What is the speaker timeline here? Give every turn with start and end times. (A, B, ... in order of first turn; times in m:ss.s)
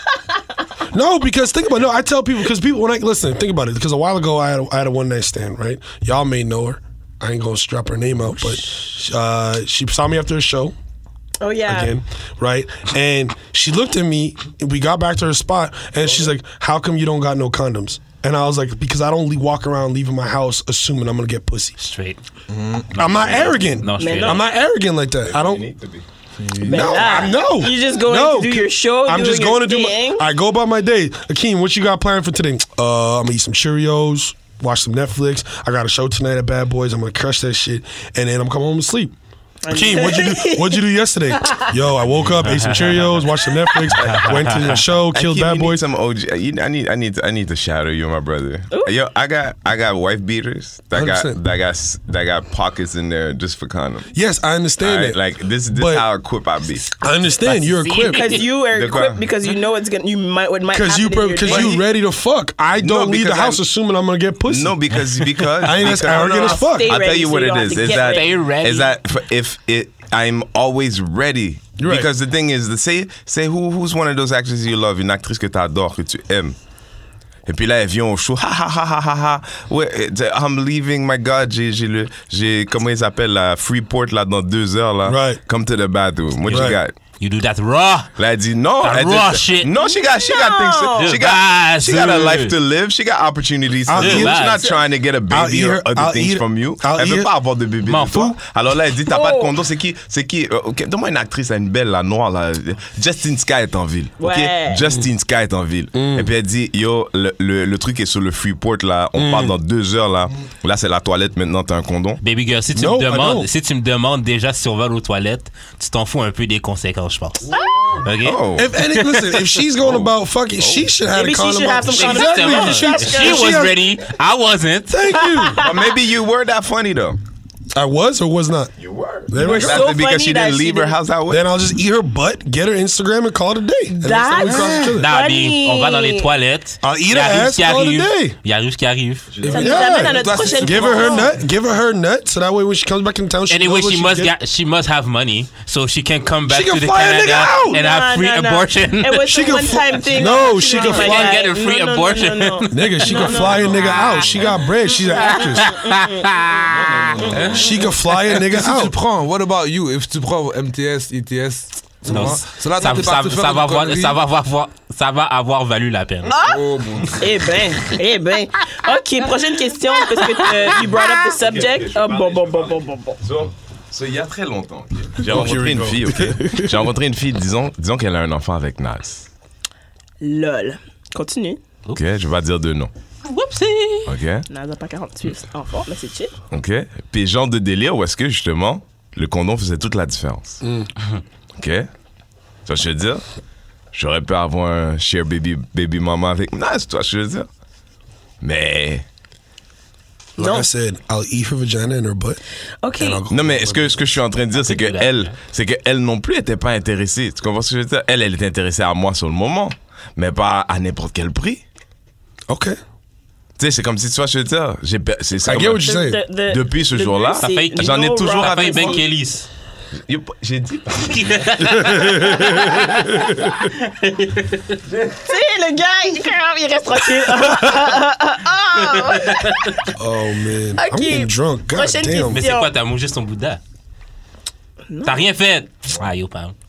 0:00.9-0:10.7 A
0:11.4-0:11.9 B
0:11.6-0:21.8 A
0:21.8-0:22.2 C
0:22.5-0:23.0 D
0:22.9-0:24.4 C
0:23.0-0:25.6 A
0:24.0-0:24.5 B
0:25.2-0:26.0 E
0:26.4-0:27.1 D
0:26.6-0:39.1 A
0:26.7-0:30.2 B
0:27.0-0:27.3 E
0:39.6-0:40.8 B
0:39.7-0:45.8 A
0:41.4-0:41.7 B
0:42.4-0:43.2 C
0:43.7-0:43.9 B
0:44.0-0:44.8 C
0:45.0-0:54.1 E
0:50.9-0:51.4 A
0:54.1-0:56.1 A
0:54.8-0:56.9 E
0:57.0-0:58.3 A
0:57.4-0:58.4 C
0:58.1-1:01.8 B
0:58.7-0:59.2 E
1:00.7-1:05.0 A
1:01.5-1:01.8 E
1:02.8-1:03.6 E
1:04.5-1:16.6 E
1:05.6-1:07.0 A
1:06.0-1:08.3 B
1:07.7-1:08.9 C
1:11.8-1:12.1 A
1:17.4-1:26.9 E
1:25.0-1:25.4 A
1:26.5-1:28.1 C
1:26.5-1:26.8 A
1:28.2-1:52.2 E
1:28.8-1:29.7 C
1:29.8-1:31.2 B
1:31.0-1:32.6 C
1:33.9-1:34.5 A
1:34.0-1:34.6 C
1:35.3-1:37.3 A
1:37.8-1:38.4 C
1:39.1-1:39.5 B
1:44.2-1:44.8 B
1:45.9-1:46.3 A
1:49.1-1:49.5 A
1:52.2-1:57.5 C
1:52.7-1:53.5 A
1:58.0-1:59.6 C
1:58.2-1:58.7 E
1:58.5-2:03.8 A
1:59.8-2:00.9 E
2:01.1-2:03.6 B
2:01.9-2:05.1 C
2:04.9-2:05.6 A
2:05.3-2:05.9 B
2:05.6-2:07.2 E
2:07.7-2:08.7 A
2:08.8-2:11.5 E
2:09.3-2:09.9 A
2:09.4-2:11.0 B
2:11.3-2:15.1 A
2:14.0-2:16.3 B
2:14.4-2:15.0 D
2:15.0-2:19.3 C
2:16.8-2:18.3 A
2:19.3-2:19.8 E
2:19.4-2:21.2 D
2:19.5-2:21.3 B
2:19.6-2:24.3 A
2:23.5-2:29.6 C
2:26.5-2:27.8 A
2:27.7-2:34.2 B
2:29.2-2:31.4 A
2:30.5-2:34.4 C
2:32.7-2:35.8 A
2:33.4-2:34.4 D
2:35.1-2:37.7 C
2:35.1-2:36.5 B
2:36.7-2:44.2 D
2:37.4-2:38.9 A
2:42.1-2:46.3 C
2:46.3-2:46.6 B
2:46.4-2:47.4 D
2:47.2-2:53.2 B
2:50.2-2:50.5 C
2:51.3-2:59.3 E
2:55.2-2:56.9 A
3:00.2-3:01.6 B
3:01.9-3:02.9 E
3:03.2-3:04.1 C
3:04.0-3:04.4 E
3:04.5-3:06.3 B
3:06.5-3:10.6 E
3:10.6-3:10.9 A
3:11.6-3:11.9 E
3:12.6-3:13.2 E
3:13.9-3:17.5 E
3:18.4-3:19.0 E
3:20.4-3:22.4 A
3:20.4-3:20.7 B
3:22.8-3:23.2 B
3:23.0-3:24.0 D
3:23.3-3:31.6 E
3:24.6-3:25.3 C
3:32.5-3:32.8 A
3:33.6-3:35.9 E
3:35.4-3:36.2 A
3:35.6-3:39.0 B
3:36.4-3:39.0 E
3:37.4-3:39.5 C
3:40.0-3:41.5 E
3:41.1-3:44.8 C
3:41.7-3:43.3 A
3:45.2-3:49.9 B
3:49.0-3:49.7 C
3:49.9-3:52.4 A
3:50.8-3:52.7 B
3:52.3-3:53.6 C
3:54.9-3:55.3 B
3:55.0-3:56.5 C